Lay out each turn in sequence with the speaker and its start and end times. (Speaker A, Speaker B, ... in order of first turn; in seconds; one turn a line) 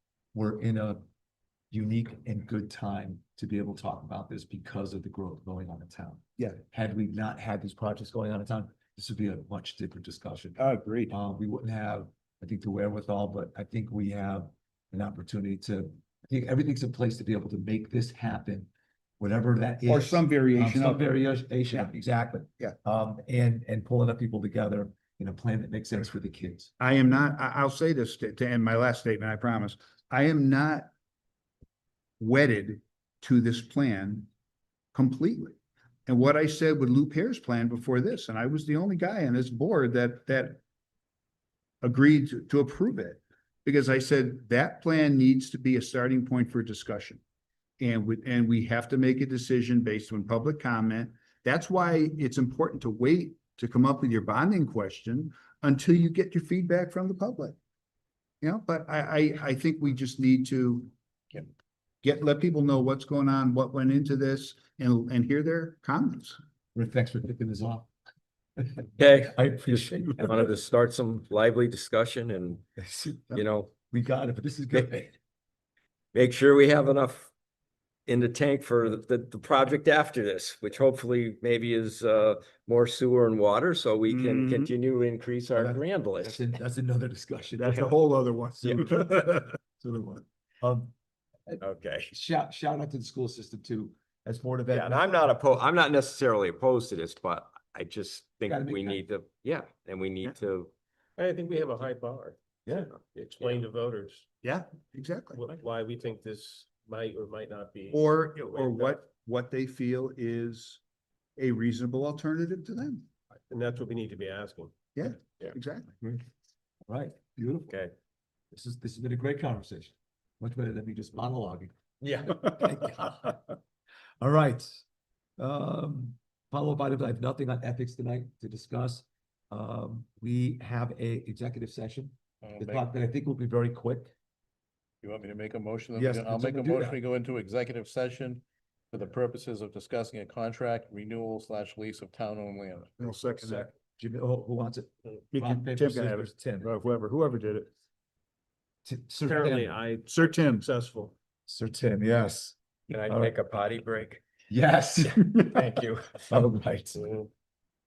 Speaker A: 0.3-1.0
Speaker A: 1.7-18.7
Speaker B: 10.6-11.1
Speaker A: 19.2-26.7
Speaker B: 19.9-21.1
Speaker B: 26.8-30.9
Speaker B: 32.2-34.3
Speaker B: 34.9-40.6
Speaker B: 41.8-47.2
Speaker B: 47.8-57.5
Speaker B: 58.4-61.4
Speaker B: 62.0-66.4
Speaker A: 66.8-67.9
Speaker A: 68.6-70.5
Speaker C: 69.0-72.6
Speaker A: 72.8-75.2
Speaker C: 73.3-73.7
Speaker C: 76.1-77.3
Speaker C: 78.1-86.4
Speaker B: 84.1-84.7
Speaker A: 85.6-87.9
Speaker B: 87.6-89.5
Speaker A: 88.7-89.0
Speaker A: 89.8-90.9
Speaker A: 91.5-95.2
Speaker C: 91.6-92.1
Speaker C: 94.7-100.7
Speaker A: 98.5-99.0
Speaker D: 101.2-104.2
Speaker B: 104.4-105.4
Speaker D: 105.3-108.0
Speaker B: 107.9-110.8
Speaker D: 108.5-108.9
Speaker B: 111.4-113.0
Speaker D: 113.5-114.7
Speaker B: 114.9-116.0
Speaker A: 116.9-117.8
Speaker A: 118.5-123.4
Speaker C: 122.0-122.4
Speaker A: 124.2-124.8
Speaker A: 125.4-134.1
Speaker E: 132.4-132.9
Speaker E: 135.0-143.5
Speaker A: 136.0-137.0
Speaker B: 143.0-143.7
Speaker A: 144.0-146.7
Speaker B: 145.3-147.7
Speaker A: 148.8-149.8
Speaker D: 149.2-151.1
Speaker B: 150.1-150.7
Speaker A: 151.5-152.6
Speaker C: 152.9-154.2
Speaker A: 153.1-153.3
Speaker A: 154.5-155.3
Speaker C: 155.4-156.3
Speaker A: 156.2-157.1